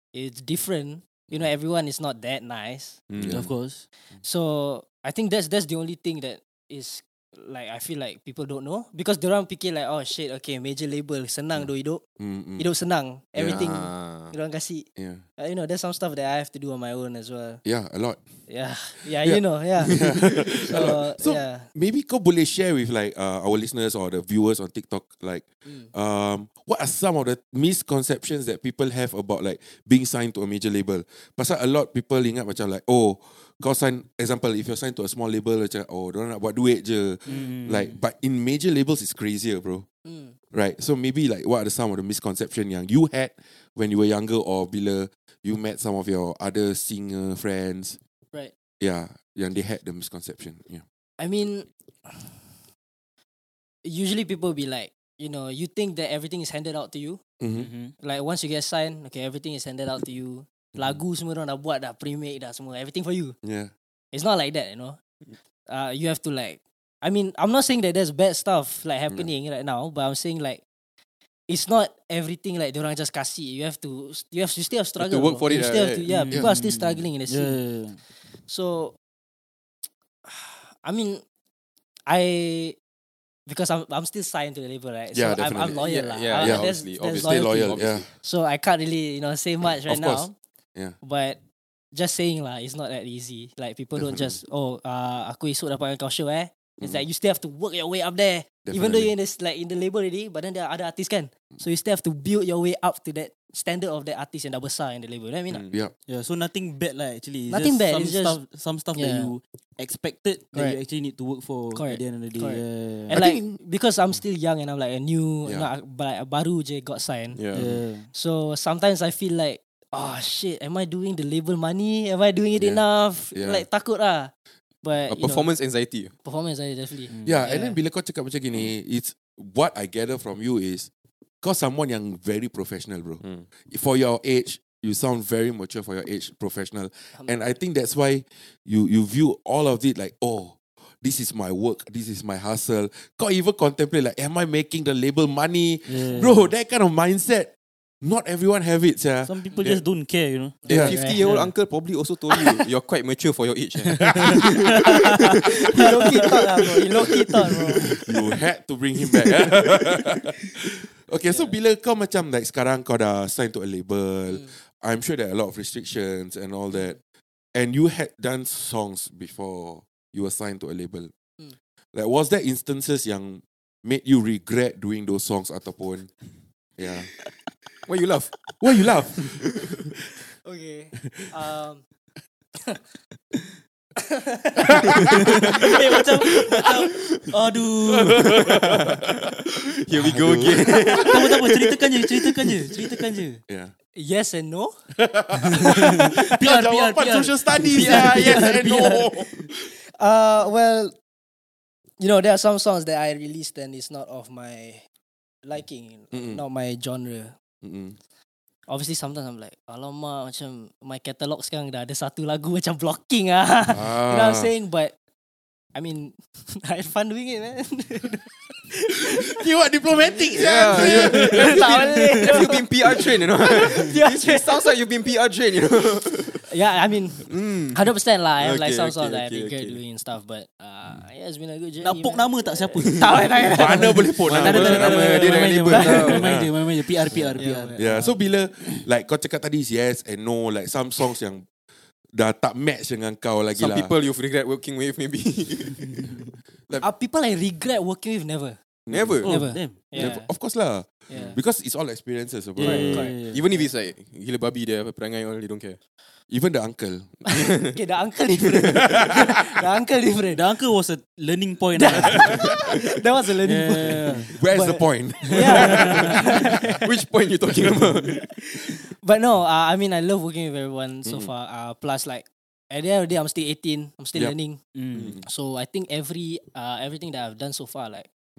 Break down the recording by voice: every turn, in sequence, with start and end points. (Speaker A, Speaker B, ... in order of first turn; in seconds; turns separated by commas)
Speaker A: 0.1-3.0, Speaker B: 3.1-3.4, Speaker C: 3.1-3.5, Speaker D: 3.3-3.8, Speaker A: 4.2-12.0, Speaker C: 12.2-12.7, Speaker A: 12.6-14.9, Speaker C: 13.4-13.7, Speaker B: 13.5-14.3, Speaker C: 15.0-15.2, Speaker A: 15.4-17.6, Speaker C: 17.6-18.2, Speaker A: 18.5-21.7, Speaker C: 19.0-39.9, Speaker A: 25.6-25.9, Speaker D: 37.3-38.0, Speaker A: 40.0-40.4, Speaker C: 40.5-48.0, Speaker C: 48.8-50.8, Speaker A: 51.2-52.5, Speaker A: 53.8-57.2, Speaker C: 57.4-57.7, Speaker D: 57.5-57.9, Speaker A: 58.0-63.4, Speaker C: 63.4-63.7, Speaker A: 64.1-65.0, Speaker A: 65.7-70.6, Speaker A: 71.5-77.6, Speaker B: 75.0-76.1, Speaker D: 76.1-78.0, Speaker A: 78.5-79.0, Speaker A: 80.2-81.2, Speaker A: 82.1-82.8, Speaker A: 83.5-90.3, Speaker C: 85.1-88.1, Speaker B: 85.8-88.1, Speaker C: 89.9-91.0, Speaker A: 91.0-91.4, Speaker A: 91.9-105.7, Speaker C: 94.0-94.4, Speaker C: 98.7-99.1, Speaker D: 106.1-113.2, Speaker A: 107.5-108.4, Speaker A: 108.9-109.3, Speaker A: 110.5-110.8, Speaker A: 111.7-117.4, Speaker C: 113.1-113.6, Speaker B: 117.3-117.8, Speaker D: 117.5-118.1, Speaker A: 118.1-124.3, Speaker C: 123.3-123.7, Speaker A: 124.8-125.5, Speaker B: 125.1-126.1, Speaker A: 126.2-127.8, Speaker D: 127.1-127.6, Speaker C: 127.2-130.9, Speaker C: 131.4-147.5, Speaker B: 133.2-133.5, Speaker A: 137.2-137.4, Speaker D: 145.9-146.5, Speaker C: 148.0-149.8, Speaker D: 149.3-151.5, Speaker A: 150.7-151.3, Speaker C: 150.7-151.0, Speaker B: 150.7-156.3, Speaker D: 153.9-155.0, Speaker A: 155.5-157.9, Speaker C: 158.0-167.0, Speaker A: 164.3-164.5, Speaker C: 167.5-171.1, Speaker C: 171.9-176.1, Speaker C: 176.8-177.1, Speaker B: 177.9-178.3, Speaker C: 178.6-180.2, Speaker B: 179.2-179.8, Speaker A: 180.4-181.8, Speaker C: 180.9-181.3, Speaker A: 184.0-185.0, Speaker D: 185.6-188.6, Speaker C: 187.9-189.1, Speaker B: 188.6-189.1, Speaker B: 189.8-191.6, Speaker C: 189.9-191.4, Speaker D: 191.0-193.4, Speaker C: 193.5-193.7, Speaker A: 193.9-194.7, Speaker C: 194.9-199.7, Speaker D: 196.2-199.1, Speaker A: 197.8-198.4, Speaker A: 199.7-200.9, Speaker A: 202.0-204.8, Speaker A: 205.4-207.3, Speaker C: 206.1-206.4, Speaker C: 207.6-208.0, Speaker A: 208.7-214.9, Speaker C: 213.7-214.5, Speaker A: 215.8-219.4, Speaker C: 219.4-221.9, Speaker B: 220.3-226.5, Speaker A: 220.7-222.7, Speaker A: 223.6-224.6, Speaker A: 226.5-234.1, Speaker B: 227.3-229.8, Speaker D: 231.8-237.8, Speaker C: 233.5-236.5, Speaker B: 234.3-236.3, Speaker A: 235.7-236.1, Speaker A: 237.4-238.2, Speaker C: 237.7-241.5, Speaker C: 242.1-243.9, Speaker B: 243.6-246.2, Speaker A: 246.8-248.6, Speaker C: 248.9-253.1, Speaker B: 248.9-249.3, Speaker D: 249.2-250.2, Speaker A: 249.2-250.2, Speaker A: 251.1-251.4, Speaker A: 252.6-253.7, Speaker D: 252.6-253.4, Speaker B: 253.3-255.8, Speaker C: 256.3-257.2, Speaker A: 257.3-260.4, Speaker B: 257.3-257.7, Speaker C: 258.9-259.3, Speaker D: 260.3-262.4, Speaker A: 261.7-266.8, Speaker D: 263.4-264.3, Speaker C: 264.2-266.8, Speaker D: 265.3-266.0, Speaker B: 266.8-268.2, Speaker A: 268.4-274.6, Speaker C: 271.1-271.3, Speaker D: 274.8-275.2, Speaker C: 274.9-275.2, Speaker A: 275.2-278.1